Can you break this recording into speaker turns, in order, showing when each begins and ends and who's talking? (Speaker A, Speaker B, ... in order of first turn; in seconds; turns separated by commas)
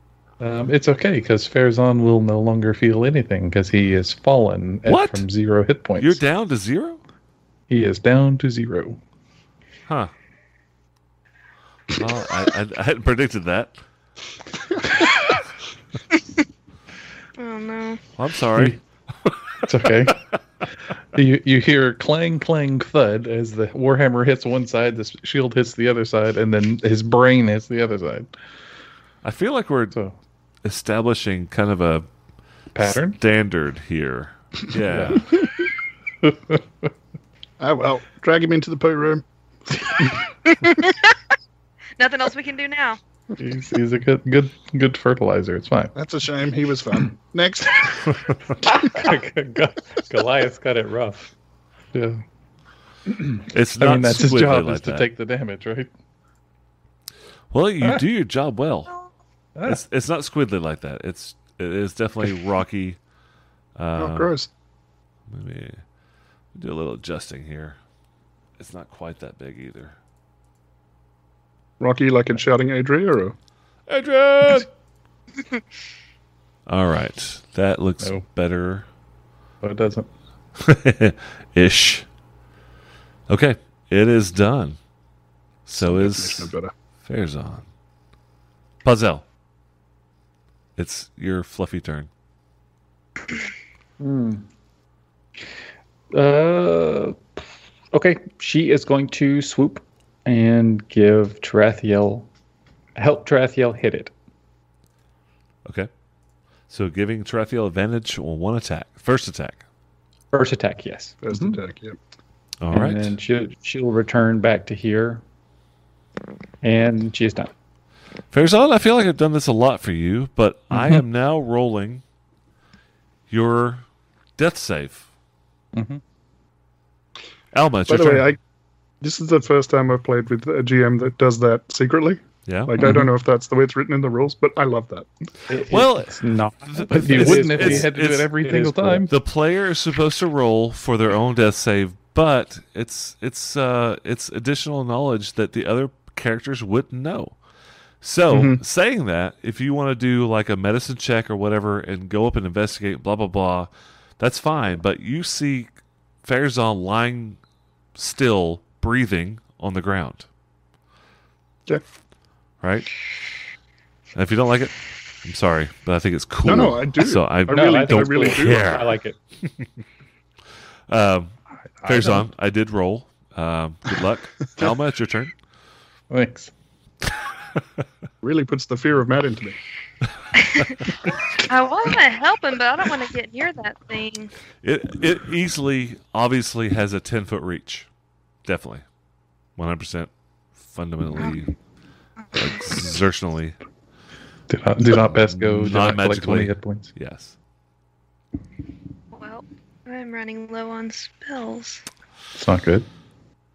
Speaker A: 0.4-6.2, Speaker B: 4.8-5.3, Speaker B: 6.0-7.0, Speaker A: 7.7-9.0, Speaker B: 11.9-13.8, Speaker C: 17.4-18.0, Speaker B: 18.2-20.1, Speaker A: 19.6-20.2, Speaker A: 21.1-28.3, Speaker B: 29.2-30.0, Speaker A: 29.9-30.2, Speaker B: 30.6-32.0, Speaker A: 32.7-33.2, Speaker B: 32.8-35.3, Speaker A: 34.8-35.3, Speaker A: 36.2-36.9, Speaker D: 37.6-39.2, Speaker C: 40.6-41.1, Speaker C: 42.0-43.0, Speaker A: 43.4-45.9, Speaker D: 45.9-48.3, Speaker E: 48.8-51.3, Speaker A: 51.9-52.2, Speaker B: 53.5-55.1, Speaker A: 53.8-55.9, Speaker B: 57.5-58.9, Speaker A: 59.5-59.8, Speaker B: 59.6-63.0, Speaker B: 63.8-64.3, Speaker D: 64.0-64.5, Speaker B: 65.3-65.8, Speaker B: 66.5-67.8, Speaker B: 68.6-69.9, Speaker D: 71.8-73.3, Speaker B: 73.9-74.7, Speaker B: 76.7-78.9, Speaker A: 79.6-80.1, Speaker B: 80.6-82.0, Speaker B: 83.3-84.8, Speaker B: 85.7-86.5, Speaker D: 85.8-86.7, Speaker B: 87.0-87.7, Speaker B: 88.8-89.2, Speaker B: 90.8-92.1, Speaker E: 94.0-94.5, Speaker E: 96.1-97.4, Speaker E: 97.9-102.3, Speaker E: 103.0-104.1, Speaker B: 106.7-109.6, Speaker E: 110.3-111.6, Speaker D: 111.2-112.0, Speaker B: 112.6-113.2, Speaker E: 112.7-115.2, Speaker E: 116.6-117.5, Speaker B: 118.3-122.0, Speaker A: 120.7-121.0, Speaker B: 123.3-123.8, Speaker B: 124.4-125.0, Speaker A: 125.7-126.0, Speaker B: 127.5-128.3, Speaker D: 127.9-128.4, Speaker D: 129.0-135.1, Speaker B: 132.4-132.7, Speaker A: 132.8-133.1, Speaker E: 135.5-139.1, Speaker B: 135.7-138.3, Speaker A: 136.9-139.1, Speaker B: 139.1-147.3, Speaker B: 148.0-155.7, Speaker D: 148.3-148.6, Speaker B: 156.2-157.4, Speaker B: 157.9-160.3, Speaker B: 162.6-162.9, Speaker B: 164.1-168.9, Speaker D: 166.4-168.8, Speaker E: 167.5-169.2, Speaker B: 170.9-171.3, Speaker A: 171.8-172.3, Speaker B: 171.8-175.3, Speaker A: 176.1-176.5, Speaker D: 178.2-179.6, Speaker C: 180.3-180.8, Speaker C: 181.4-184.3, Speaker B: 184.6-187.9, Speaker B: 188.4-188.8, Speaker B: 189.6-191.5, Speaker B: 192.3-193.6, Speaker A: 194.5-196.9, Speaker B: 195.1-197.3, Speaker C: 199.1-201.8, Speaker A: 202.3-202.9